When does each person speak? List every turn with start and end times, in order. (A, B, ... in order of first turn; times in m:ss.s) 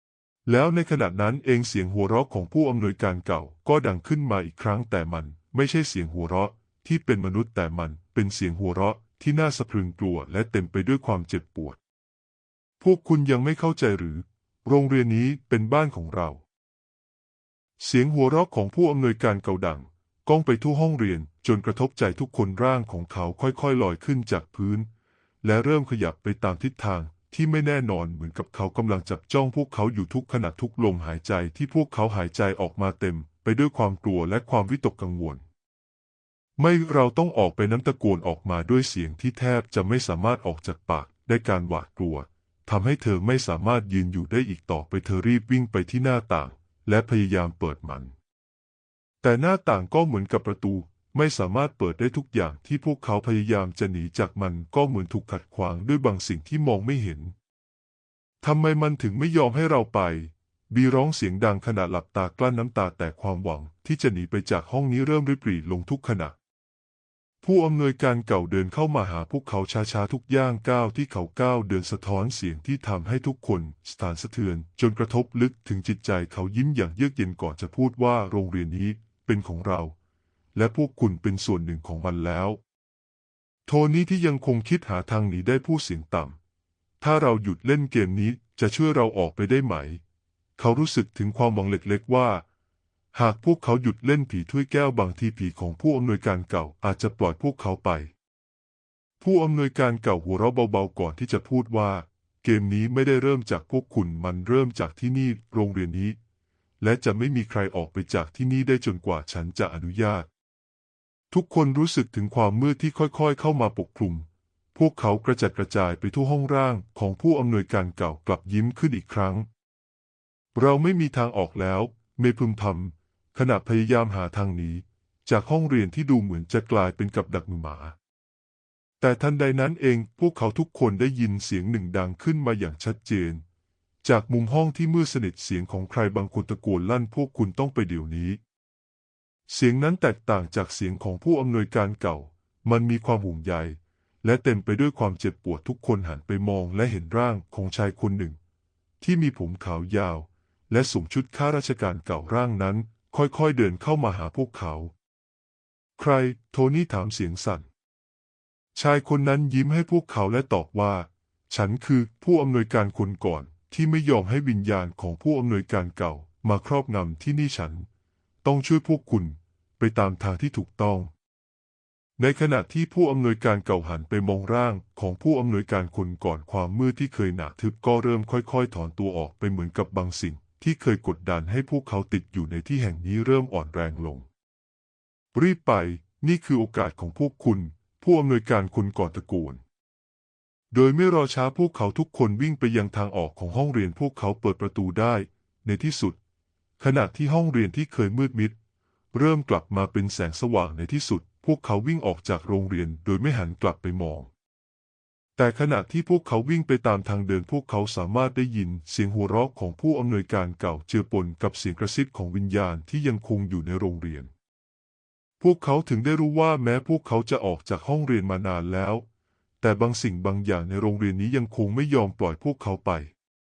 0:00.5-0:11.8 A
0:12.8-0:16.4 A
0:17.8-0:24.9 A
0:25.4-0:35.4 A
0:36.6-0:48.1 A
0:49.2-0:57.4 A
0:58.4-1:06.4 A
1:07.4-1:20.0 A
1:20.5-1:22.6 A
1:23.7-1:26.4 A
1:27.0-1:30.0 A
1:30.6-1:32.5 A
1:33.1-1:38.1 A
1:39.2-1:46.2 A
1:46.8-1:50.3 A
1:51.3-1:59.5 A
2:00.6-2:08.0 A
2:09.0-2:13.4 A
2:14.0-2:18.4 A
2:19.5-2:28.4 A
2:29.0-2:34.9 A
2:36.0-2:37.7 A
2:38.8-2:47.9 A
2:48.4-2:51.1 A
2:52.2-3:04.3 A
3:05.3-3:09.6 A
3:10.7-3:16.2 A
3:16.8-3:18.6 A
3:19.1-3:24.3 A
3:25.4-3:34.3 A
3:35.4-3:39.1 A
3:39.6-3:43.1 A